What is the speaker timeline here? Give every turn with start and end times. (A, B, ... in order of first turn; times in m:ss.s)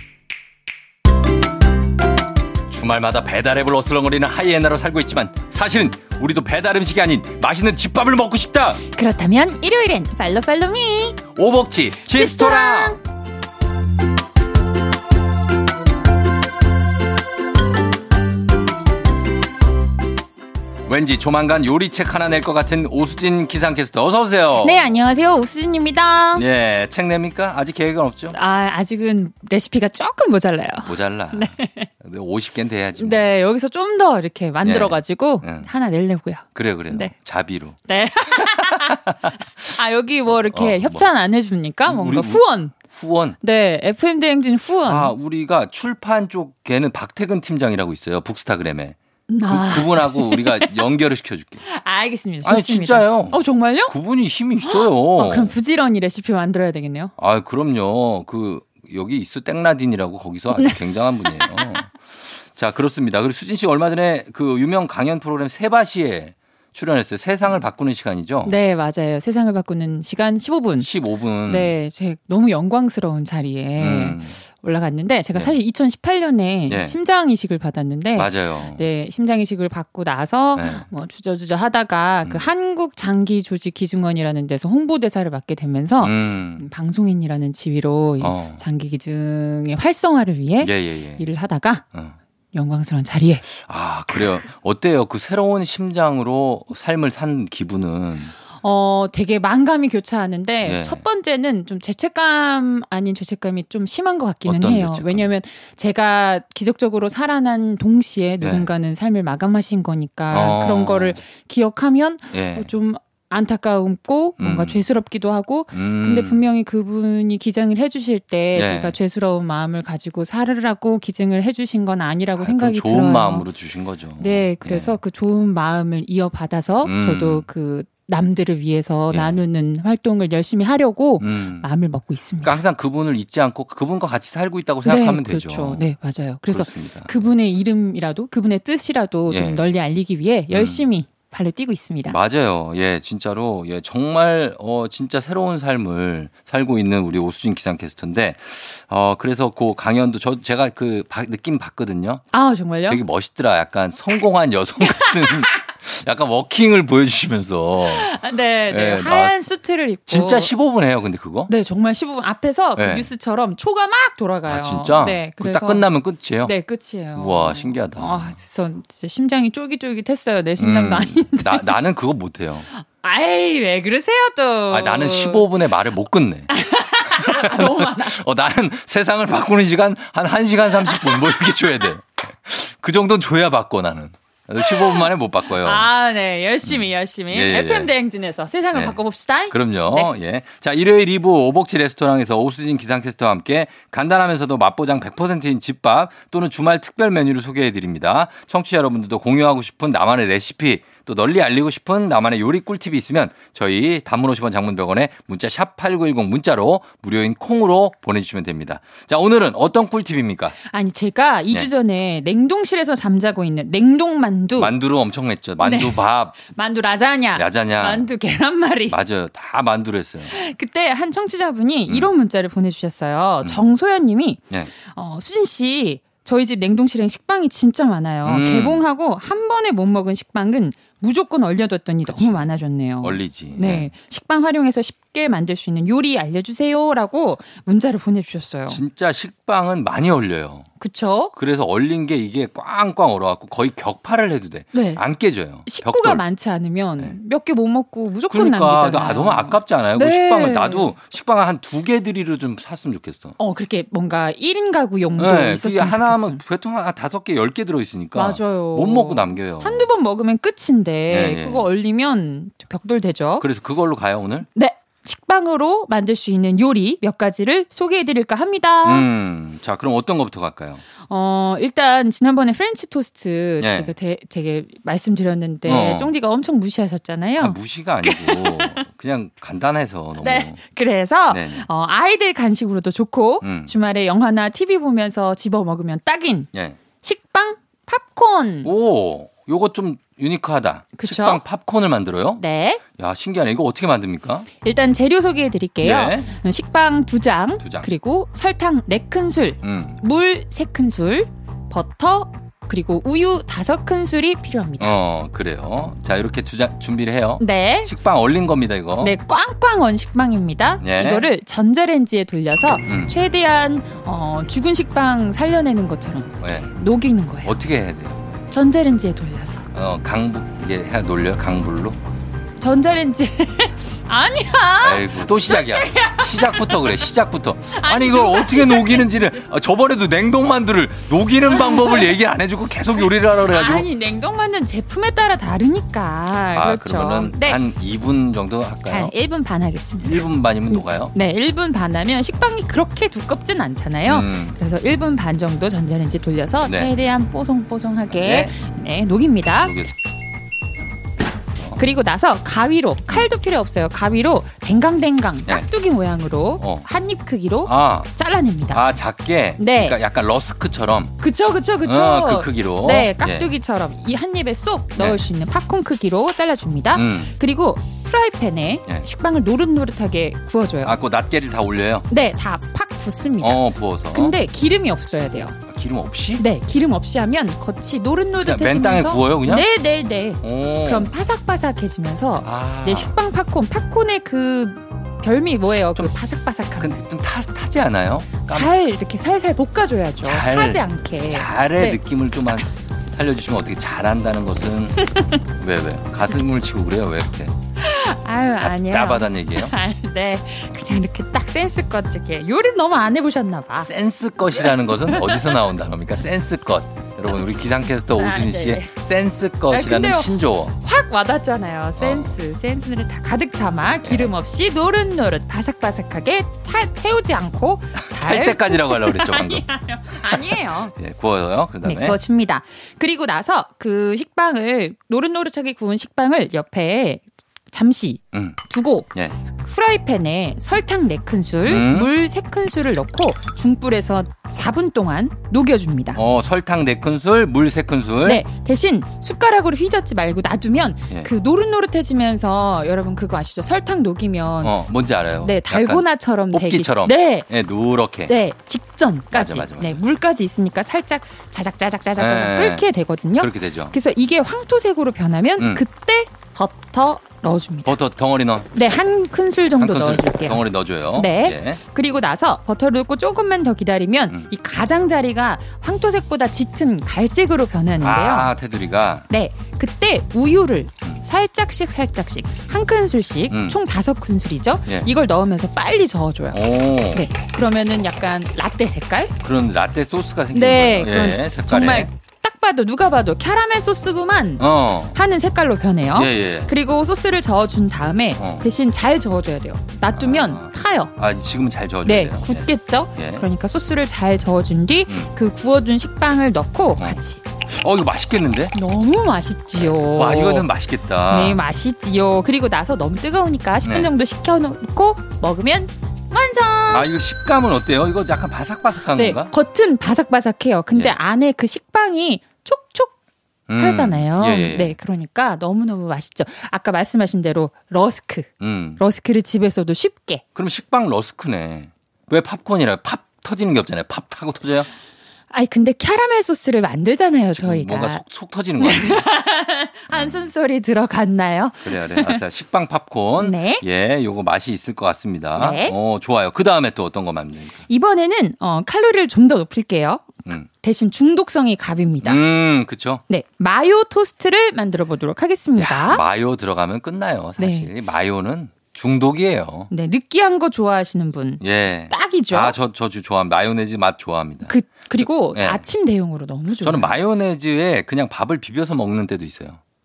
0:02.7-0:08.8 A
0:09.0-0:11.2 B
0:11.4-0:13.0 A
0:12.0-0:13.0 B
0:20.9-0:24.9 A
0:24.6-0:26.4 B
0:26.4-0:28.4 A
0:28.3-0:31.9 B
0:30.8-0:33.3 A
0:33.0-0:37.2 B
0:34.6-0:35.7 A
0:36.6-0:37.8 A
0:37.9-0:39.1 B
0:39.6-0:42.8 B
0:40.3-0:41.1 A
0:41.9-0:43.4 A
0:43.4-0:45.1 B
0:44.9-0:51.6 A
0:49.3-0:50.8 B
0:51.6-0:53.9 B
0:52.4-0:55.6 A
0:54.6-0:57.1 B
0:57.2-1:01.9 A
1:00.5-1:01.8 B
1:02.4-1:08.6 A
1:08.4-1:10.9 B
1:10.8-1:11.7 A
1:11.5-1:31.8 B
1:13.8-1:14.4 A
1:16.7-1:17.0 A
1:18.2-1:18.8 A
1:20.6-1:20.9 A
1:22.2-1:22.5 A
1:26.0-1:26.7 A
1:28.2-1:28.6 A
1:30.6-1:31.2 A
1:32.5-1:33.5 B
1:33.5-1:38.3 A
1:38.6-2:03.5 B
1:40.6-1:41.0 A
1:44.5-1:45.3 A
1:48.4-1:48.7 A
1:50.3-1:51.2 A
1:52.3-1:52.7 A
1:54.4-1:54.8 A
1:55.7-1:56.4 A
1:58.6-1:59.0 A
2:02.4-2:05.0 A
2:04.2-2:12.6 B
2:06.8-2:07.5 A
2:09.1-2:09.4 A
2:11.2-2:11.7 A
2:12.4-2:15.8 A
2:14.8-2:22.2 B
2:16.5-2:17.2 A
2:19.3-2:19.6 A
2:20.5-2:20.9 A
2:22.1-2:32.2 A
2:32.3-2:33.0 B
2:32.9-2:38.1 A
2:34.8-2:35.5 B
2:37.8-2:40.5 B
2:38.7-2:39.4 A
2:40.1-2:41.5 A
2:41.5-2:45.9 B
2:42.8-2:43.1 A
2:44.5-2:46.5 A
2:46.4-2:51.8 B
2:47.2-2:48.4 A
2:50.6-2:52.7 A
2:52.7-2:55.5 B
2:54.7-2:56.5 A
2:56.5-2:58.2 B
2:57.1-3:05.9 A
3:00.9-3:01.3 B
3:04.6-3:10.1 B
3:06.6-3:07.9 A
3:08.7-3:09.0 A
3:09.5-3:30.6 A
3:30.6-3:34.7 B
3:34.6-3:36.4 A
3:35.6-3:39.0 B
3:37.4-3:38.1 A
3:38.9-3:40.3 A
3:40.3-3:58.8 B
3:48.2-3:48.8 A
3:52.1-3:52.5 A
3:53.0-3:53.9 A
3:58.7-4:00.7 A
4:00.8-4:01.3 B
4:01.3-4:06.2 A
4:04.7-4:05.0 B
4:05.6-4:10.9 B
4:08.3-4:13.4 A
4:13.4-4:16.4 B
4:15.2-4:19.9 A
4:18.2-4:23.5 B
4:21.1-4:21.7 A
4:23.4-4:24.5 A
4:24.6-4:29.1 B
4:28.8-4:30.8 A
4:31.1-4:38.8 B
4:33.6-4:33.9 A
4:35.6-4:36.1 A
4:37.4-4:40.6 A
4:40.2-4:48.7 B
4:41.3-4:41.7 A
4:43.4-4:43.7 A
4:46.5-4:46.8 A
4:48.6-4:54.5 A
4:51.0-4:51.4 B
4:52.4-4:52.8 B
4:54.6-5:05.0 B
4:55.8-4:56.3 A
4:57.6-4:57.9 A
4:59.6-5:00.0 A
5:04.8-5:09.1 A
5:07.4-5:07.9 B
5:09.0-5:17.6 B
5:10.8-5:11.3 A
5:12.9-5:13.2 A
5:16.4-5:16.7 A
5:17.4-5:18.4 A
5:18.5-5:19.7 B
5:19.7-5:22.0 A
5:22.6-5:27.0 B
5:24.8-5:33.9 A
5:27.7-5:29.4 B
5:31.5-5:32.2 B
5:33.0-5:37.6 B
5:36.5-5:39.1 A
5:38.9-5:49.8 B
5:40.0-5:41.1 A
5:44.1-5:44.6 A
5:46.6-5:46.9 A
5:48.1-5:48.6 A
5:49.6-5:49.9 A
5:51.8-5:58.9 B
5:56.6-5:56.9 A
5:57.6-5:58.1 A
5:58.7-6:01.1 A
5:59.6-6:00.0 B
6:01.2-6:11.0 B
6:01.8-6:03.5 A
6:06.9-6:07.4 A
6:10.8-6:12.1 A
6:12.1-6:15.6 B
6:13.4-6:14.4 A
6:15.7-6:16.4 A
6:16.4-6:27.0 B
6:18.4-6:19.7 A
6:20.4-6:21.1 A
6:22.4-6:23.1 A
6:26.8-6:28.7 A
6:28.5-6:32.0 B
6:30.2-6:35.0 A
6:35.6-6:37.5 A
6:37.8-6:43.9 B
6:38.6-6:39.7 A
6:43.8-6:50.7 A
6:44.6-6:45.6 B
6:48.2-6:48.9 B
6:49.7-7:00.9 B
6:52.0-6:52.4 A
6:54.0-6:54.3 A
6:58.0-6:59.7 A
7:00.2-7:02.2 A
7:01.8-7:16.2 B
7:08.3-7:08.6 A
7:11.6-7:12.1 A
7:16.1-7:18.4 A
7:18.2-7:24.8 B
7:24.6-7:28.4 A
7:25.4-7:27.5 B
7:28.3-7:38.0 B
7:29.3-7:30.0 A
7:32.2-7:32.9 A
7:33.4-7:34.0 A
7:35.6-7:35.8 A
7:37.8-7:38.7 A
7:38.7-7:48.5 B
7:39.8-7:41.8 A
7:48.0-7:49.3 A
7:49.3-7:59.3 B
7:53.5-7:53.8 A
7:56.5-7:57.2 A
7:59.4-8:02.1 A
8:00.5-8:11.1 B
8:04.6-8:05.2 A
8:06.1-8:06.7 A
8:08.4-8:08.7 A
8:10.2-8:13.5 A
8:12.0-8:17.4 B
8:17.7-8:18.7 A
8:18.7-8:20.7 B
8:19.8-8:21.6 A
8:21.3-8:27.1 B
8:23.8-8:24.1 A
8:26.9-8:29.5 A
8:29.1-8:33.1 B
8:33.7-8:35.0 A
8:33.8-8:40.4 B
8:38.6-8:39.0 A
8:40.6-8:44.9 A
8:45.5-8:48.2 B
8:47.5-8:49.3 A
8:48.8-8:52.4 B
8:50.1-8:50.5 A
8:51.8-8:57.8 A
8:53.4-8:53.8 B
8:55.6-8:56.0 B
8:57.9-9:02.4 B
9:02.2-9:03.2 A
9:03.3-9:06.2 B
9:05.8-9:09.9 A
9:07.6-9:07.9 B
9:09.9-9:12.8 B
9:11.6-9:15.8 A
9:14.6-9:17.2 B
9:16.8-9:19.8 A